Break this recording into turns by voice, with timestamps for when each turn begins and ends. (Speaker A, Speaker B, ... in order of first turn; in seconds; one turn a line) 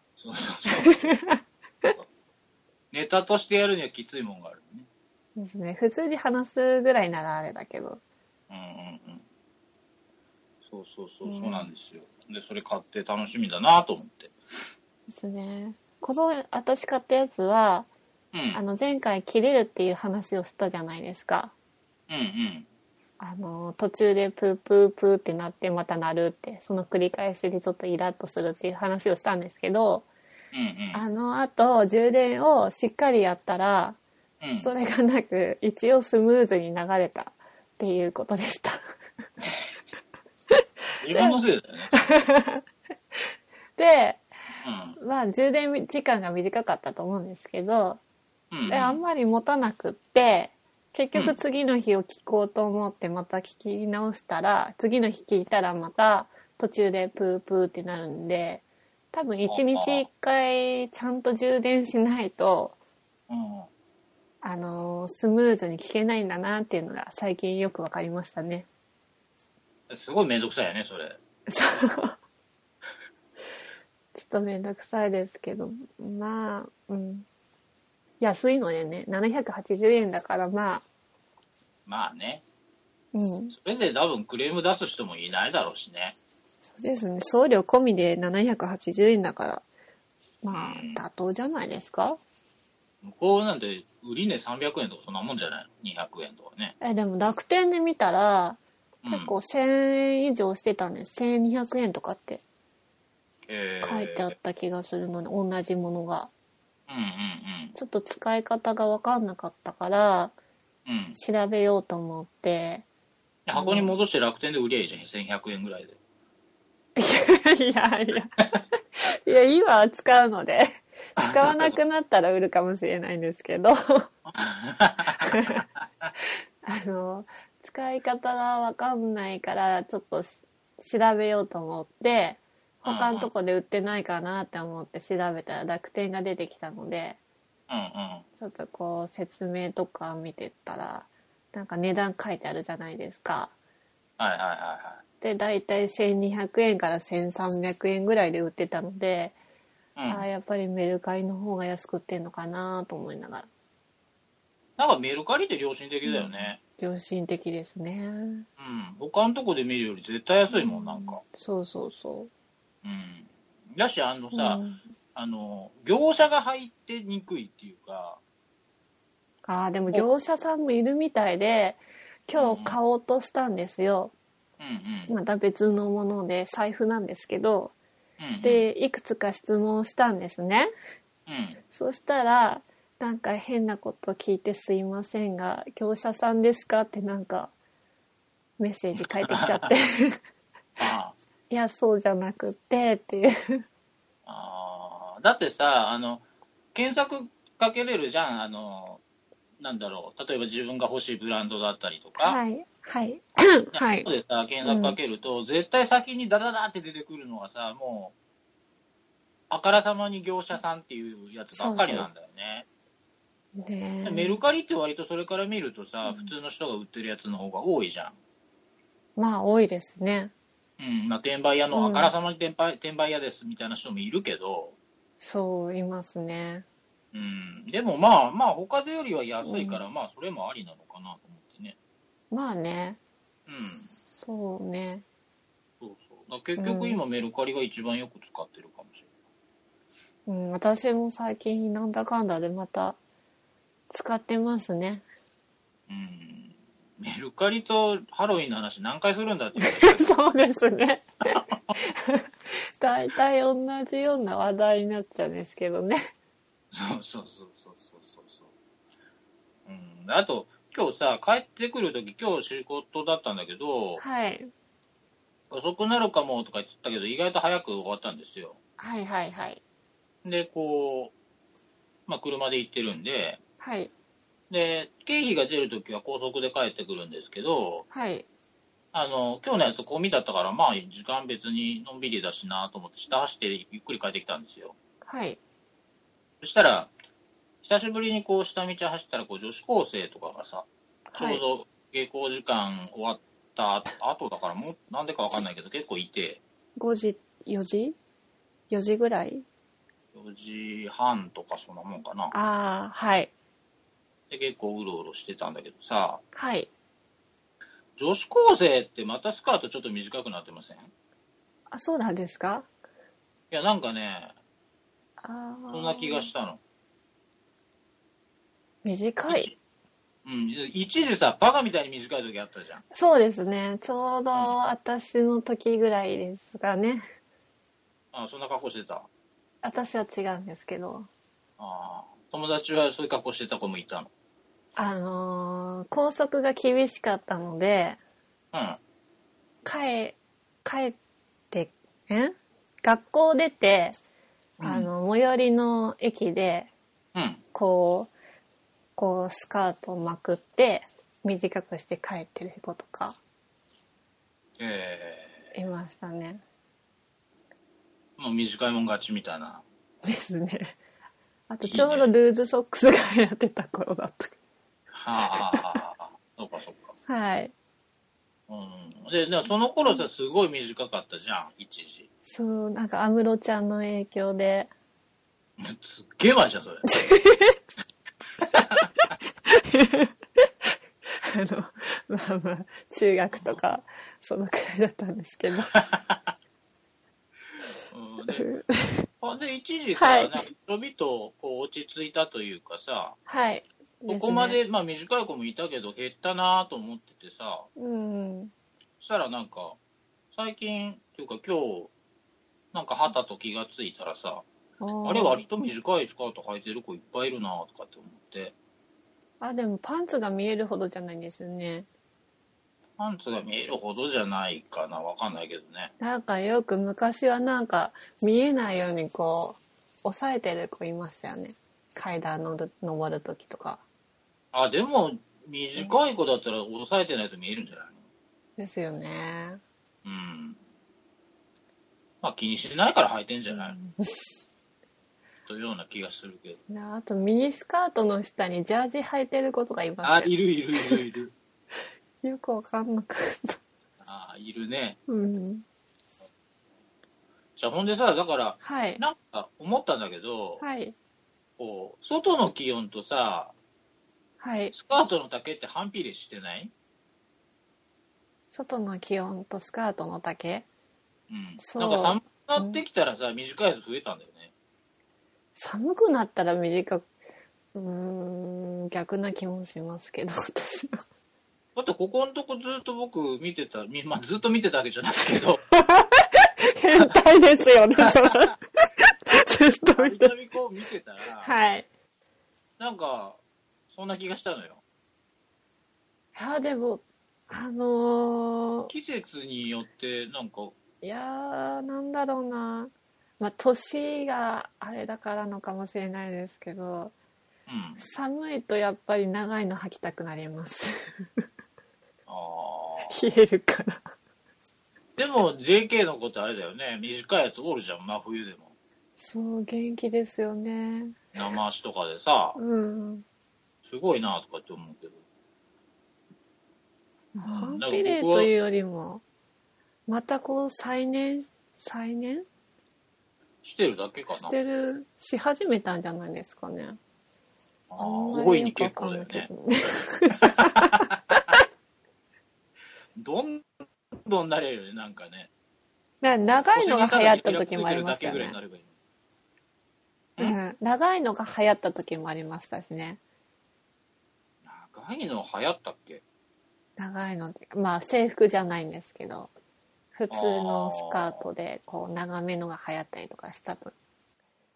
Speaker A: 0.2-1.2
Speaker B: 0.7-1.9
Speaker A: 2.9-4.9
Speaker B: 5.4-8.0
Speaker A: 8.5-9.2
Speaker A: 10.7-14.7
Speaker B: 11.2-11.7
Speaker B: 15.1-17.9
Speaker A: 18.3-18.6
Speaker B: 18.5-21.5
Speaker A: 22.1-22.7
Speaker B: 23.2-30.1
Speaker A: 30.5-31.0
Speaker B: 30.9-34.0
Speaker A: 34.4-34.7
Speaker B: 34.5-38.8
Speaker A: 41.0-42.0
Speaker B: 41.1-41.4
Speaker B: 41.9-42.6
Speaker B: 43.8-44.2
Speaker A: 44.6-45.0
Speaker B: 45.0-48.0
Speaker A: 48.5-49.0
Speaker B: 48.7-62.8
Speaker A: 59.5-60.1
Speaker A: 63.3-63.7
Speaker B: 64.4-68.7
Speaker A: 69.9-71.2
Speaker B: 71.5-72.2
Speaker B: 74.2-77.3
Speaker B: 78.2-80.8
Speaker A: 81.9-82.4
Speaker B: 83.1-83.6
Speaker A: 83.5-86.2
Speaker B: 86.7-89.6
Speaker B: 90.4-92.2
Speaker A: 90.5-91.0
Speaker A: 93.0-96.8
Speaker B: 96.8-102.4
Speaker A: 99.0-99.3
Speaker A: 103.5-104.3
Speaker B: 103.8-106.3
Speaker A: 106.9-107.8
Speaker B: 107.8-110.3
Speaker A: 110.9-111.2
Speaker B: 111.2-112.8
Speaker A: 113.5-116.0
Speaker B: 113.5-114.0
Speaker B: 117.0-118.5
Speaker B: 119.0-124.1
Speaker A: 121.2-121.8
Speaker A: 124.3-126.1
Speaker B: 125.2-125.6
Speaker B: 126.7-137.2
Speaker A: 132.8-133.3
Speaker A: 137.7-138.2
Speaker B: 138.4-143.5
Speaker A: 144.2-145.0
Speaker B: 145.2-149.4
Speaker A: 150.0-150.3
Speaker B: 150.1-153.5
Speaker A: 154.8-156.6
Speaker B: 156.1-158.5
Speaker A: 158.6-161.2
Speaker B: 160.5-162.3
Speaker A: 162.8-164.6
Speaker B: 164.3-164.8
Speaker A: 165.2-168.2
Speaker B: 169.5-174.1
Speaker A: 172.4-172.8
Speaker A: 174.6-175.1
Speaker B: 175.1-177.7
Speaker A: 178.2-178.7
Speaker B: 178.4-180.7
Speaker A: 181.3-181.6
Speaker B: 181.7-187.5
Speaker B: 188.6-190.2
Speaker A: 189.0-189.7
Speaker A: 190.8-191.2
Speaker B: 191.5-193.6
Speaker A: 194.3-199.0
Speaker A: 199.6-202.4
Speaker B: 202.2-204.1
Speaker A: 203.7-208.1
Speaker B: 204.6-205.0
Speaker A: 209.5-212.7
Speaker B: 211.5-212.1
Speaker B: 213.6-214.4
Speaker A: 214.0-218.2
Speaker B: 216.0-216.3
Speaker B: 219.2-220.3
Speaker A: 220.8-224.8
Speaker B: 221.7-222.1
Speaker B: 225.2-226.7
Speaker A: 227.1-231.8
Speaker B: 229.4-229.8
Speaker B: 232.3-233.0
Speaker A: 233.5-233.9
Speaker B: 233.7-235.0
Speaker A: 235.8-239.1
Speaker B: 236.6-237.0
Speaker B: 240.3-243.0
Speaker B: 243.9-245.1
Speaker A: 245.9-250.1
Speaker B: 249.6-252.3
Speaker A: 251.3-251.6
Speaker B: 252.8-256.1
Speaker A: 256.7-258.5
Speaker A: 259.7-264.0
Speaker B: 264.0-264.5
Speaker A: 265.5-268.6
Speaker B: 268.8-269.6
Speaker A: 270.2-271.1
Speaker A: 272.1-273.4
Speaker B: 273.6-273.9
Speaker A: 274.5-277.9
Speaker B: 277.9-278.3
Speaker A: 278.9-284.8
Speaker B: 285.1-285.4
Speaker A: 286.4-286.9
Speaker A: 287.6-296.4
Speaker B: 291.1-291.4
Speaker B: 296.8-298.0
Speaker B: 298.7-299.4
Speaker A: 300.1-302.3
Speaker B: 302.3-303.3
Speaker A: 304.3-306.2
Speaker B: 306.3-306.7
Speaker A: 308.0-310.9
Speaker B: 311.7-312.7
Speaker A: 313.5-314.3
Speaker B: 315.2-316.3
Speaker A: 315.7-316.6
Speaker B: 318.8-319.5
Speaker A: 319.3-319.5
Speaker A: 320.2-322.8
Speaker B: 322.9-327.0
Speaker A: 328.1-329.1
Speaker B: 329.6-331.1
Speaker A: 331.6-334.1
Speaker B: 334.8-338.0
Speaker A: 338.5-338.8
Speaker B: 339.6-341.0
Speaker B: 341.5-344.0
Speaker A: 344.6-344.9
Speaker B: 344.6-346.7
Speaker A: 347.1-347.4
Speaker B: 347.5-348.1
Speaker B: 349.0-353.2
Speaker A: 354.6-355.5
Speaker B: 355.5-356.4
Speaker A: 358.2-359.6
Speaker B: 360.1-360.8
Speaker B: 361.5-364.4
Speaker A: 361.6-362.1
Speaker A: 364.9-366.9
Speaker B: 365.5-365.8
Speaker B: 367.1-367.5
Speaker A: 368.5-372.1
Speaker B: 372.3-374.7
Speaker A: 375.6-376.9
Speaker B: 376.9-377.6
Speaker A: 378.4-378.9
Speaker B: 379.5-380.1
Speaker B: 381.2-385.7
Speaker A: 383.3-383.6
Speaker A: 385.7-386.3
Speaker A: 387.9-388.5
Speaker B: 388.3-389.1
Speaker A: 389.2-393.2
Speaker B: 390.0-390.4
Speaker B: 393.3-394.6
Speaker A: 394.1-397.7
Speaker B: 397.8-398.5
Speaker A: 399.0-399.8
Speaker A: 400.3-401.9
Speaker A: 402.7-404.4
Speaker B: 404.8-405.4
Speaker A: 405.0-408.5
Speaker B: 409.4-411.9
Speaker A: 413.0-415.9
Speaker B: 416.0-423.8
Speaker A: 424.5-428.0
Speaker B: 428.6-429.6
Speaker A: 430.1-430.6
Speaker A: 432.2-433.8
Speaker B: 433.5-434.1
Speaker A: 435.5-436.6
Speaker B: 436.7-441.0
Speaker A: 440.0-441.3
Speaker B: 442.2-443.6
Speaker A: 444.0-445.0
Speaker B: 445.1-445.6
Speaker A: 447.6-450.6
Speaker B: 448.6-449.0
Speaker B: 450.6-450.9
Speaker A: 451.6-453.5
Speaker B: 454.4-454.8
Speaker A: 454.7-456.7
Speaker B: 458.5-460.7
Speaker A: 461.3-464.5
Speaker B: 461.6-462.8
Speaker B: 465.6-467.1
Speaker B: 467.8-471.0
Speaker A: 471.8-475.6
Speaker B: 475.7-480.3
Speaker A: 478.0-478.5
Speaker A: 479.9-481.5
Speaker B: 481.4-481.9
Speaker A: 482.8-483.4
Speaker A: 483.9-484.8
Speaker B: 486.4-488.9
Speaker A: 488.9-490.8
Speaker B: 491.0-497.1
Speaker A: 497.7-498.0
Speaker B: 498.0-500.9
Speaker A: 502.3-503.2
Speaker B: 503.1-504.0
Speaker A: 505.2-508.7
Speaker B: 509.2-511.2
Speaker A: 511.3-512.6
Speaker B: 512.6-513.2
Speaker A: 513.8-515.2
Speaker B: 517.4-519.2
Speaker A: 517.5-518.5
Speaker B: 520.1-522.5
Speaker A: 523.6-524.5
Speaker B: 524.3-527.0
Speaker A: 527.9-529.5
Speaker B: 528.0-531.6
Speaker A: 530.4-531.2
Speaker A: 533.2-535.5
Speaker B: 536.2-538.6
Speaker A: 536.5-538.9
Speaker B: 540.4-543.2
Speaker A: 544.6-546.2
Speaker B: 547.0-549.5
Speaker B: 550.2-553.9
Speaker A: 550.3-551.4